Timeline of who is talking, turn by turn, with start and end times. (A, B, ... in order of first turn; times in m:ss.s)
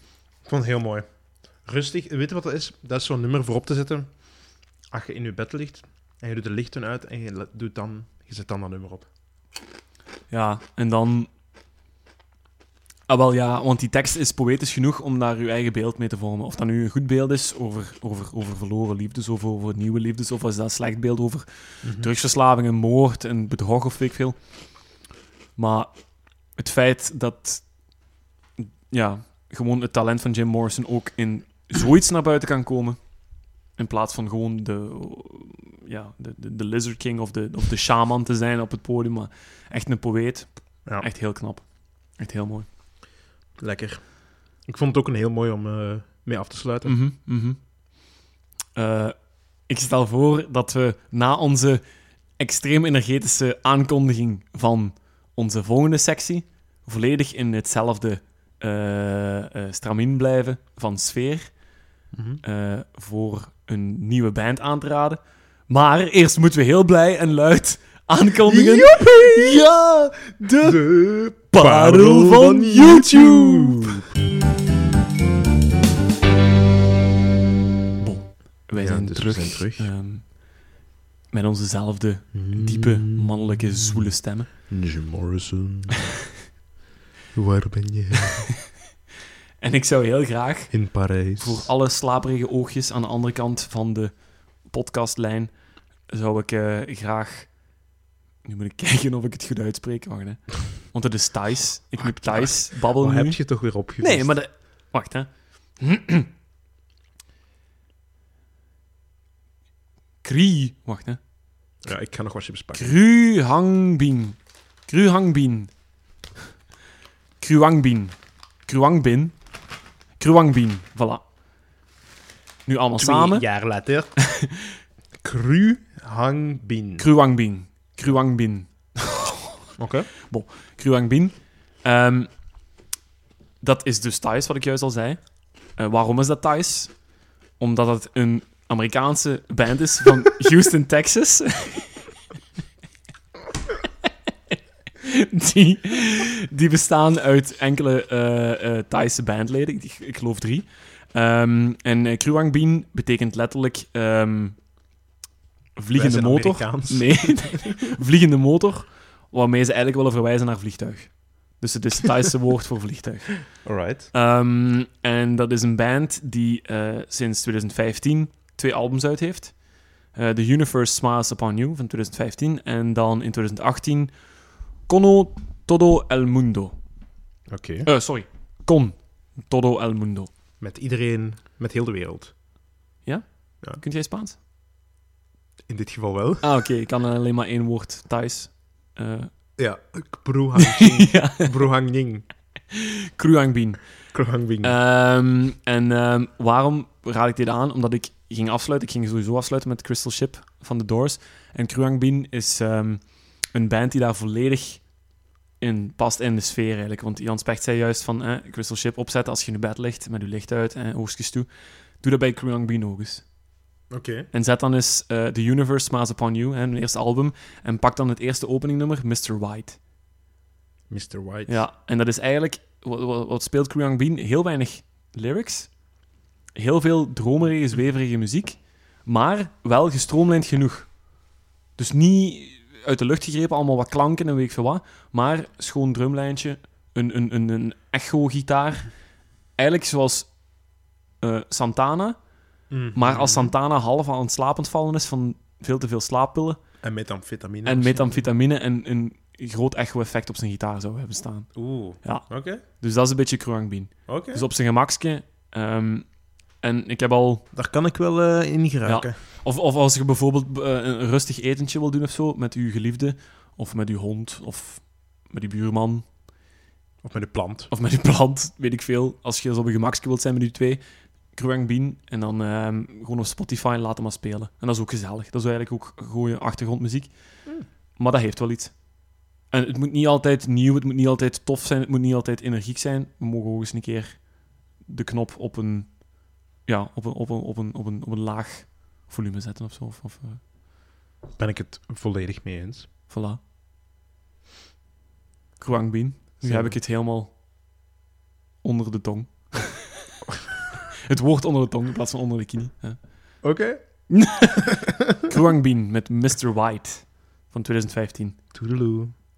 0:00.4-0:09.1 A
0:10.3-0:11.3 B
0:13.1-0:25.0 B
0:21.8-0:22.1 A
0:25.6-0:42.7 B
0:43.6-0:47.1 A
0:46.8-0:48.1 B
0:48.7-1:13.9 B
1:02.1-1:02.4 A
1:08.5-1:09.6 A
1:10.6-1:14.1 A
1:18.0-1:24.7 B
1:18.8-1:19.9 A
1:22.3-1:26.0 A
1:27.3-1:28.6 A
1:29.6-1:37.9 B
1:30.7-1:31.7 A
1:38.4-1:46.3 B
1:42.0-1:44.6 A
1:50.2-1:51.2 B
1:51.8-1:53.0 A
1:52.7-1:55.8 B
1:57.4-2:01.3 B
2:02.7-2:03.7 B
2:03.0-2:04.4 A
2:05.2-2:07.1 A
2:07.0-2:09.2 B
2:09.8-2:10.1 A
2:10.3-2:12.5 B
2:13.6-2:22.0 B
2:25.0-2:34.7 B
2:35.8-2:57.0 B
2:35.9-2:37.8 A
2:43.6-2:44.1 A
2:57.5-2:57.9 A
2:57.8-3:00.3 B
3:00.6-3:02.4 A
3:03.0-3:04.4 B
3:05.7-3:06.5 A
3:06.4-3:09.6 B
3:09.6-3:12.3 A
3:10.6-3:11.5 B
3:13.2-3:33.3 B
3:14.1-3:14.8 A
3:33.9-3:34.3 A
3:34.3-3:39.8 B
3:40.9-3:41.7 A
3:41.5-4:06.8 B
4:02.7-4:03.5 A
4:06.8-4:08.3 A
4:07.6-4:17.5 B
4:11.5-4:12.6 A
4:14.1-4:14.5 A
4:17.5-4:19.2 A
4:18.8-4:26.2 B
4:27.0-4:27.7 A
4:27.7-4:50.4 B
4:51.4-4:52.9 A
4:53.1-4:53.4 B
4:55.6-4:57.4 B
4:56.4-4:56.8 A
4:58.6-5:00.0 B
5:01.1-5:03.6 B
5:03.4-5:04.5 A
5:04.2-5:08.4 B
5:08.5-5:09.1 A